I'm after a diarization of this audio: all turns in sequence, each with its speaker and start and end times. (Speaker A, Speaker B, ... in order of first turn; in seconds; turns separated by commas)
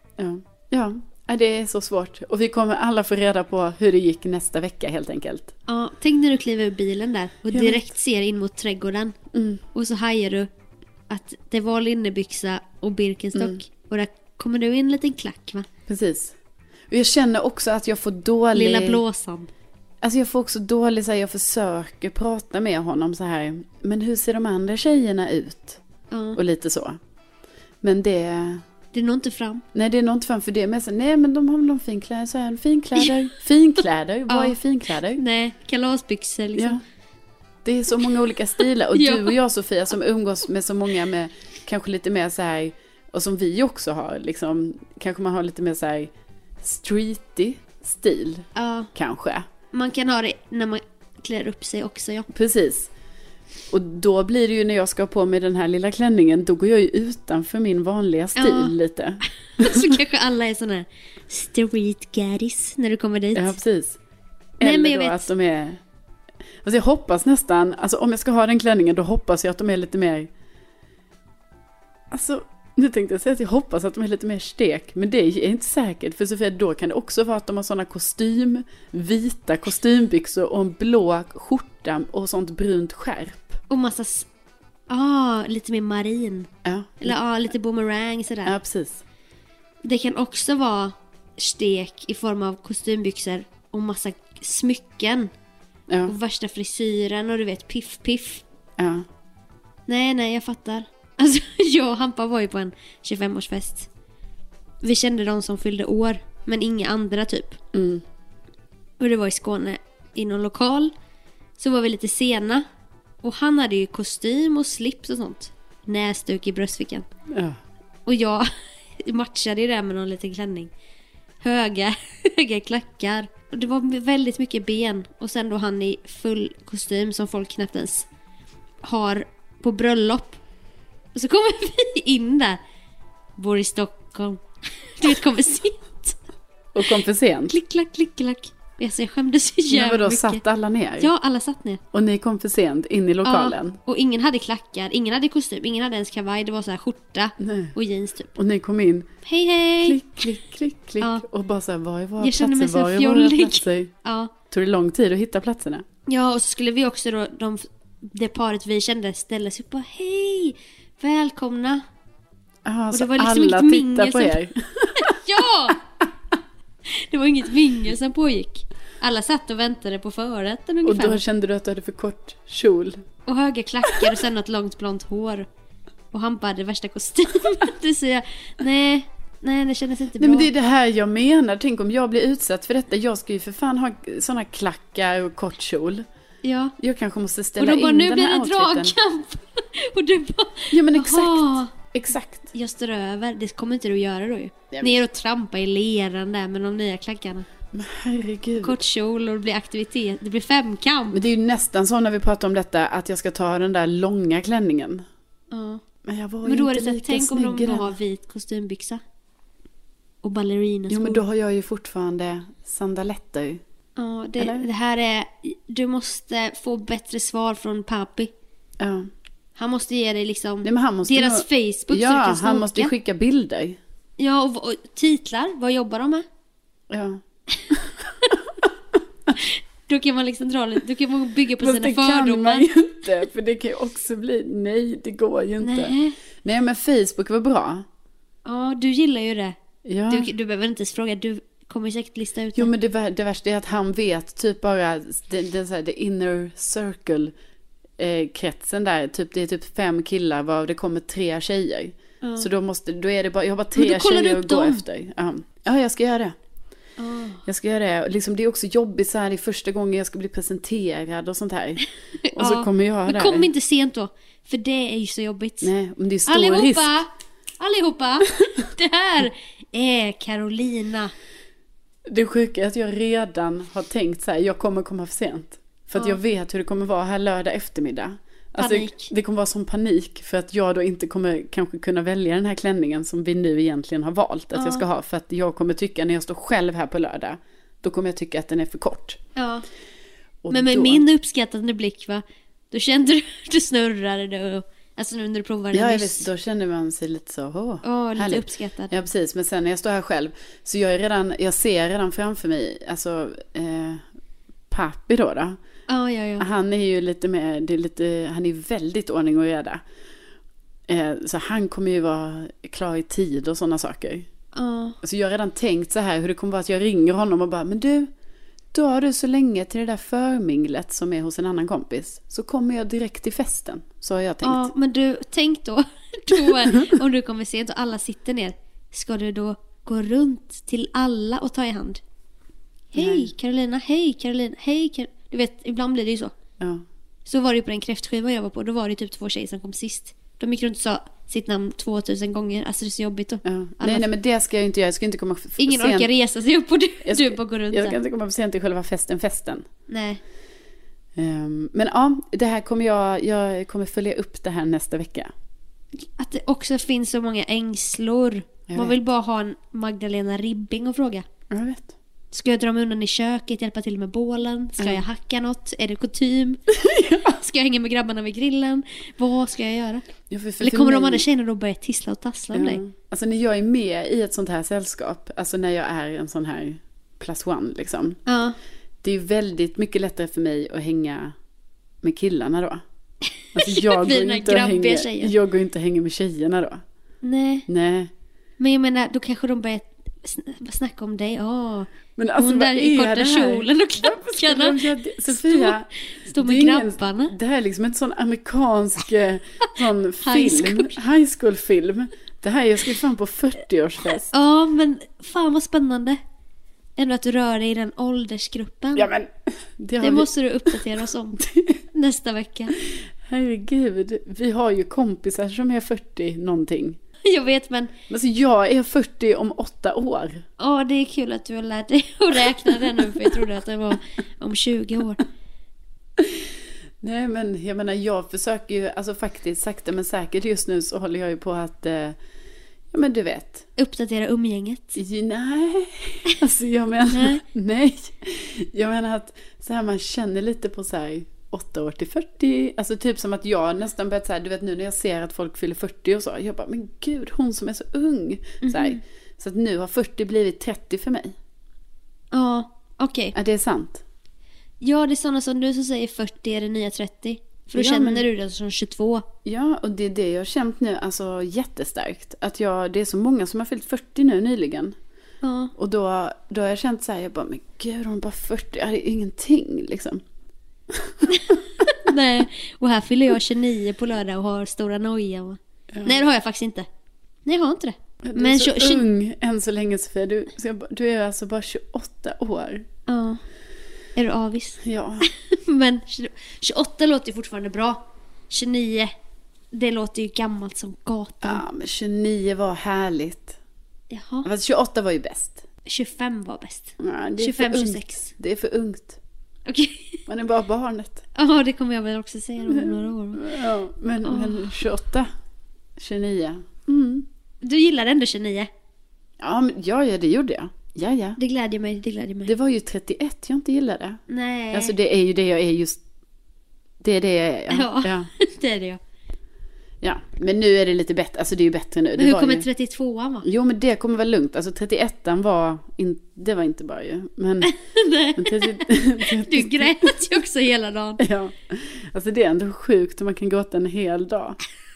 Speaker A: 0.2-5.5, Speaker B: 5.7-9.1, Speaker A: 7.5-7.9, Speaker A: 9.3-9.6, Speaker B: 9.7-10.5, Speaker B: 11.1-15.7, Speaker A: 13.3-13.6, Speaker A: 15.9-16.4, Speaker A: 16.9-19.0, Speaker B: 18.5-19.5, Speaker A: 20.0-25.8, Speaker B: 26.1-26.4, Speaker A: 26.3-27.0, Speaker A: 27.8-28.6, Speaker B: 28.9-29.6, Speaker A: 29.7-35.2, Speaker B: 34.3-34.5, Speaker B: 35.1-36.8, Speaker A: 36.5-36.8, Speaker A: 37.6-49.4, Speaker B: 38.9-39.3, Speaker B: 48.5-48.9, Speaker B: 49.7-52.3, Speaker A: 52.3-52.9, Speaker A: 53.7-60.0, Speaker B: 58.4-58.7, Speaker B: 59.6-63.6, Speaker A: 63.3-64.0, Speaker A: 64.6-65.8, Speaker B: 64.6-65.3, Speaker A: 66.6-70.3, Speaker A: 72.1-83.6, Speaker B: 83.7-84.3, Speaker B: 84.9-86.5, Speaker A: 86.6-87.2, Speaker B: 87.0-88.5, Speaker A: 88.4-89.0, Speaker B: 89.8-95.3, Speaker A: 95.9-96.1, Speaker B: 96.0-98.4, Speaker A: 98.8-99.0, Speaker B: 99.9-103.9, Speaker B: 104.8-107.6, Speaker A: 107.7-108.0, Speaker B: 109.0-110.9, Speaker B: 111.6-112.6, Speaker B: 113.2-117.0, Speaker A: 117.3-117.6, Speaker B: 118.0-120.7, Speaker B: 121.4-128.1, Speaker B: 128.8-130.4, Speaker B: 131.1-132.6, Speaker B: 133.3-136.2, Speaker A: 136.7-137.5, Speaker B: 137.5-140.4, Speaker A: 139.7-141.1, Speaker B: 141.0-141.8, Speaker A: 141.9-143.8, Speaker B: 143.2-148.3, Speaker A: 147.4-147.7, Speaker A: 148.3-149.1, Speaker B: 149.2-150.0, Speaker A: 149.8-153.9, Speaker B: 151.0-151.2, Speaker B: 152.2-154.3, Speaker A: 154.5-155.8, Speaker B: 156.1-161.8, Speaker A: 162.6-165.7, Speaker B: 162.9-164.4, Speaker B: 164.9-165.8, Speaker B: 166.9-171.2, Speaker A: 170.8-173.0, Speaker B: 173.2-175.4, Speaker A: 173.8-174.2, Speaker B: 176.1-180.5, Speaker A: 180.2-186.1, Speaker B: 186.4-186.7, Speaker A: 186.8-188.9, Speaker B: 187.6-191.7, Speaker A: 190.7-192.5, Speaker B: 192.5-197.4, Speaker A: 194.7-195.0, Speaker A: 197.7-198.8, Speaker B: 198.6-201.2, Speaker A: 201.1-205.0, Speaker B: 205.5-205.8, Speaker A: 206.0-208.0, Speaker B: 206.4-209.0, Speaker B: 210.2-211.2, Speaker A: 210.9-213.6, Speaker B: 214.0-218.3, Speaker A: 214.4-214.7, Speaker A: 218.8-219.1, Speaker B: 219.6-222.9, Speaker A: 220.6-223.8, Speaker B: 224.2-226.2, Speaker A: 226.9-228.7, Speaker B: 227.5-228.3, Speaker B: 229.4-233.0, Speaker A: 231.6-237.8, Speaker B: 235.6-236.2, Speaker B: 238.4-239.5, Speaker A: 239.8-240.3, Speaker B: 240.1-242.7, Speaker A: 242.5-247.3, Speaker A: 248.0-256.3, Speaker B: 252.2-252.5, Speaker B: 253.7-254.8, Speaker B: 257.0-257.4, Speaker A: 257.4-263.5, Speaker B: 262.2-265.7, Speaker A: 265.6-266.9, Speaker B: 266.2-271.1, Speaker A: 272.1-289.2, Speaker B: 278.6-279.1, Speaker B: 284.5-284.8, Speaker B: 289.4-289.6, Speaker A: 290.4-291.0, Speaker B: 290.5-296.3, Speaker A: 295.7-304.0, Speaker B: 297.8-298.9, Speaker A: 304.7-305.6, Speaker B: 305.9-306.5, Speaker A: 306.4-309.8, Speaker A: 310.9-314.3, Speaker B: 314.5-315.0, Speaker A: 315.0-318.1, Speaker A: 318.7-324.7, Speaker B: 324.4-332.0, Speaker A: 326.3-327.0, Speaker B: 332.9-336.3, Speaker A: 332.9-333.3, Speaker A: 336.6-336.8, Speaker B: 337.2-344.1, Speaker A: 343.4-346.1, Speaker B: 345.6-347.9, Speaker A: 347.0-349.6, Speaker B: 349.9-350.2, Speaker A: 351.1-355.3, Speaker B: 356.2-361.3, Speaker A: 358.7-359.0, Speaker A: 361.5-361.9, Speaker B: 362.3-366.6, Speaker A: 364.8-365.0, Speaker A: 366.7-367.4, Speaker B: 367.2-370.0, Speaker A: 370.3-371.2, Speaker B: 370.6-372.8, Speaker A: 372.5-378.2, Speaker B: 378.2-378.6, Speaker A: 379.0-381.3, Speaker A: 382.0-382.8, Speaker A: 383.5-386.8, Speaker B: 383.6-385.3, Speaker B: 387.2-387.7, Speaker A: 387.7-388.1, Speaker B: 388.6-397.3, Speaker A: 392.2-404.3, Speaker B: 400.2-401.0, Speaker B: 404.2-406.2, Speaker B: 407.0-409.1, Speaker A: 408.9-410.8, Speaker B: 410.0-412.7, Speaker A: 411.4-411.8, Speaker A: 413.2-417.0, Speaker B: 417.2-417.9, Speaker A: 418.1-420.4, Speaker B: 420.6-425.2, Speaker A: 422.7-423.4, Speaker A: 426.2-426.5, Speaker A: 427.0-432.2, Speaker A: 432.9-433.6, Speaker B: 433.8-435.0, Speaker A: 434.9-451.3, Speaker B: 437.1-437.4, Speaker B: 448.6-449.0, Speaker B: 452.3-453.4, Speaker A: 453.3-454.0, Speaker B: 454.8-459.3, Speaker A: 457.7-458.3, Speaker A: 459.4-464.9, Speaker B: 465.4-465.7, Speaker A: 465.8-470.2, Speaker A: 470.9-472.1, Speaker B: 471.3-476.9, Speaker A: 475.9-476.2, Speaker B: 477.4-479.0, Speaker A: 478.2-482.9, Speaker B: 483.1-483.4, Speaker B: 484.1-489.1, Speaker A: 484.8-485.3, Speaker B: 489.7-491.6, Speaker A: 491.4-493.6, Speaker B: 494.1-494.5, Speaker A: 494.4-495.6, Speaker B: 495.8-498.3, Speaker A: 497.0-499.2, Speaker B: 499.7-500.2, Speaker A: 500.3-501.2, Speaker B: 501.3-503.5, Speaker A: 502.7-505.3, Speaker B: 504.2-504.8, Speaker A: 506.0-507.3, Speaker B: 507.6-508.7, Speaker A: 509.4-511.4, Speaker B: 511.4-512.5, Speaker A: 512.5-514.2, Speaker B: 514.3-514.9, Speaker A: 514.7-516.0, Speaker A: 517.0-518.3, Speaker B: 517.7-519.0, Speaker A: 520.0-522.7, Speaker B: 522.2-523.5, Speaker A: 523.4-527.7, Speaker B: 527.6-531.2, Speaker A: 528.4-530.4, Speaker A: 531.2-534.6